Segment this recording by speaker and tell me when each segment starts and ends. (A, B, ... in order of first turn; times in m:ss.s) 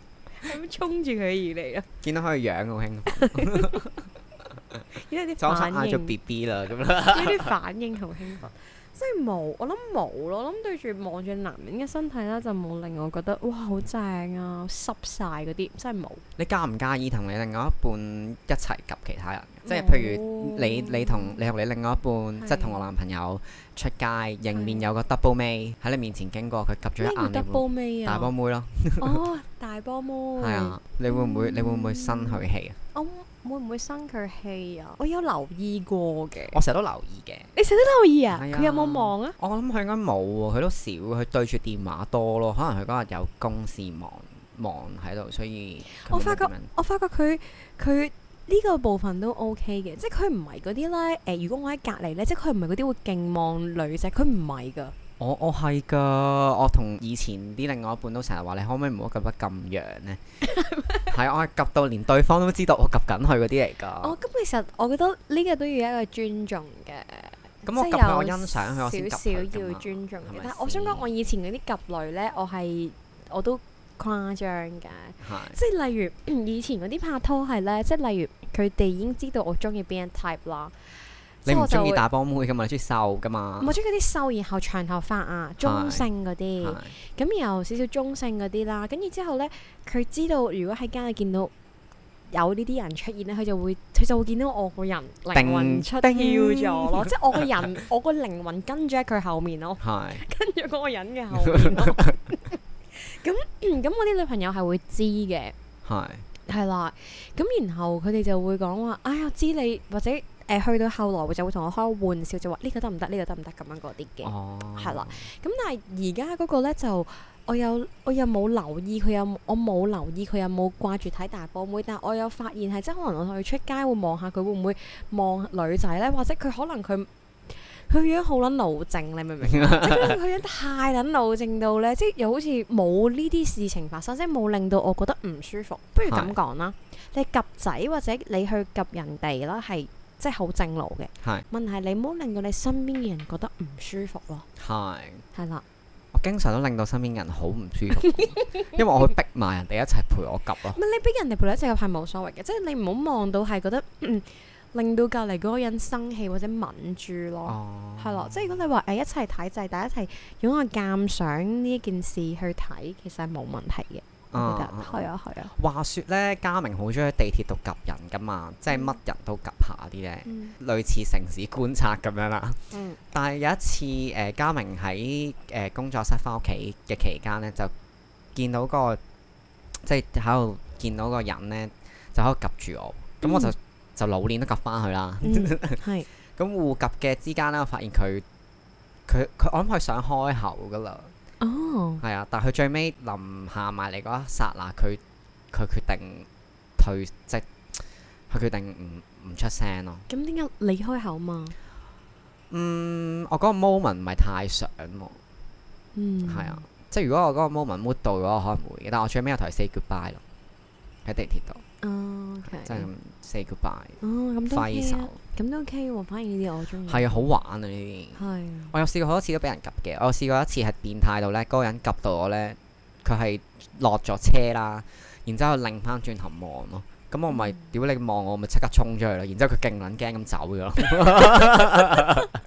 0:00.4-0:01.9 A
0:02.0-0:04.9 B
0:03.1-0:03.8 A
0:04.9-0:06.1 A
0:05.4-0:07.5 B
0:07.1-0:16.2 A
0:16.4-0:29.2 B
0:19.7-0:21.4 A
0:22.4-0:22.8 A
0:24.5-0:24.8 A
0:27.0-0:28.3 A
0:29.0-0:32.4 A
0:30.4-0:32.8 B
0:32.9-0:36.6 A
0:36.5-0:37.5 B
0:37.6-0:39.4 A
0:38.3-0:46.7 B
0:45.9-0:55.0 A
0:55.2-1:00.2 B
1:00.5-1:01.1 A
1:01.1-1:04.2 B
1:04.0-1:22.0 A
1:07.6-1:11.1 B
1:15.2-1:15.6 B
1:21.4-1:23.8 B
1:23.6-1:31.5 A
1:25.6-1:26.1 B
1:26.6-1:26.9 B
1:32.3-1:45.5 A
1:35.3-1:37.6 B
1:39.8-1:40.2 B
1:41.4-1:42.2 B
1:45.8-1:46.3 B
1:46.5-2:24.5 A
1:54.2-1:55.3 B
2:09.5-2:10.2 B
2:16.1-2:16.4 B
2:24.6-2:25.2 B
2:25.3-2:25.6 A
2:26.1-2:30.8 B
2:28.1-2:28.7 A
2:30.7-2:45.5 A
2:37.5-2:38.6 B
2:44.3-2:57.7 B
2:50.3-2:50.6 A
2:52.7-2:53.0 A
2:58.4-2:59.0 B
2:59.8-3:05.8 B
3:03.2-3:03.5 A
3:05.2-3:06.1 A
3:06.4-3:08.2 B
3:09.1-3:11.1 B
3:11.4-3:12.0 A
3:12.0-3:20.1 B
3:20.1-3:21.6 A
3:22.5-3:25.2 B
3:26.0-3:26.6 A
3:26.3-3:30.2 B
3:31.0-3:31.6 B
3:31.8-3:32.9 A
3:32.5-3:35.2 B
3:34.0-3:37.3 A
3:36.9-3:52.3 B
3:38.2-3:38.7 A
3:47.3-3:47.6 A